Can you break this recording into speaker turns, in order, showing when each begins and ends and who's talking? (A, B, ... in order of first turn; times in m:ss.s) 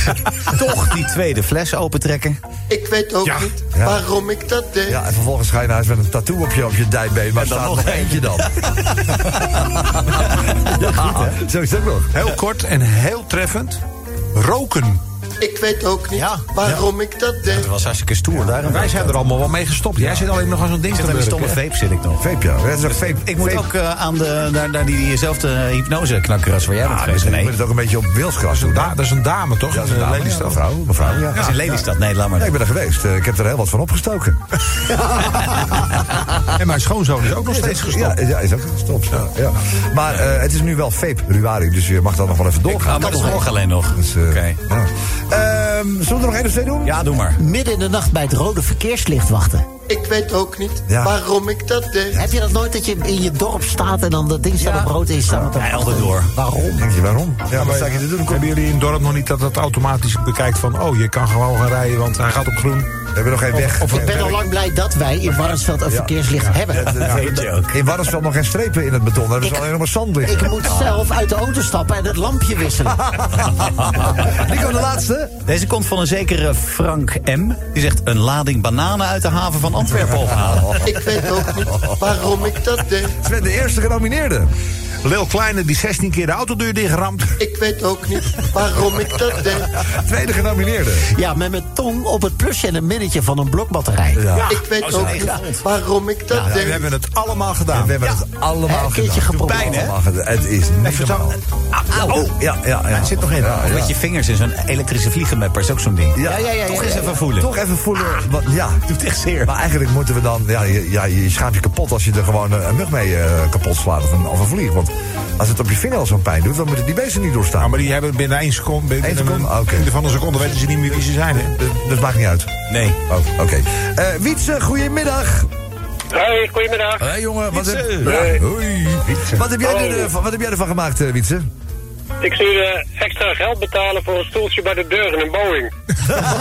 0:00.4-0:02.4 A
0:02.7-0:05.0 B
0:03.2-0:03.5 C
0:03.7-0:04.0 D
0:04.9-0:12.2 D
0:07.4-0:09.3 A
0:11.0-0:11.3 A
0:12.1-0:13.8 C
0:14.3-0:15.0 C
0:15.4-0:17.7 B
0:16.1-0:16.8 A
0:17.5-0:19.3 A
0:18.6-0:21.6 C
0:20.0-0:20.3 A
0:20.9-0:22.2 A
0:22.2-0:23.7 D
0:22.7-0:27.5 A
0:27.0-0:29.0 D
0:28.5-0:30.6 C
0:29.7-0:31.5 D
0:31.3-0:32.5 A
0:31.3-0:31.7 C
0:32.4-0:34.4 D
0:36.5-0:38.2 C
0:37.4-0:43.4 D
0:42.6-0:44.6 A
0:43.0-0:43.4 E
0:43.9-0:47.0 D
0:46.8-0:47.4 A
0:47.4-0:49.6 E
0:49.9-0:52.2 B
0:50.9-0:51.1 D
0:52.2-0:56.8 E
0:54.6-0:56.3 A
0:56.8-0:58.5 D
0:57.5-1:02.9 C
1:03.1-1:04.4 D
1:03.5-1:04.4 C
1:03.9-1:07.0 E
1:05.9-1:06.1 D
1:06.4-1:07.4 C
1:06.7-1:10.7 D
1:06.8-1:07.8 A
1:09.4-1:13.3 E
1:13.0-1:15.3 D
1:15.4-1:20.8 A
1:20.0-1:21.0 D
1:20.8-1:23.2 B
1:21.7-1:21.9 D
1:23.2-1:24.5 D
1:25.0-1:27.4 C
1:27.4-1:29.7 B
1:29.8-1:31.1 D
1:31.1-1:34.2 E
1:34.1-1:34.6 D
1:34.3-1:34.6 C
1:34.4-1:36.8 B
1:34.8-1:35.6 A
1:36.4-1:36.7 D
1:36.5-1:38.0 C
1:37.7-1:41.4 D
1:38.6-1:39.8 E
1:39.3-1:39.9 A
1:40.8-1:41.3 C
1:41.9-1:42.3 C
1:41.9-1:44.0 D
1:42.9-1:43.6 C
1:43.2-1:47.5 A
1:46.1-1:46.6 D
1:46.2-1:47.2 E
1:47.3-1:48.8 D
1:48.9-1:49.5 A
1:49.4-1:57.9 D
1:57.6-2:01.5 C
1:59.0-1:59.9 D
2:01.5-2:05.5 D
2:02.7-2:03.0 A
2:06.1-2:07.1 F
2:07.0-2:11.5 D
2:07.6-2:08.1 C
2:08.0-2:08.4 F
2:09.1-2:09.4 C
2:09.6-2:10.1 F
2:12.2-2:15.7 F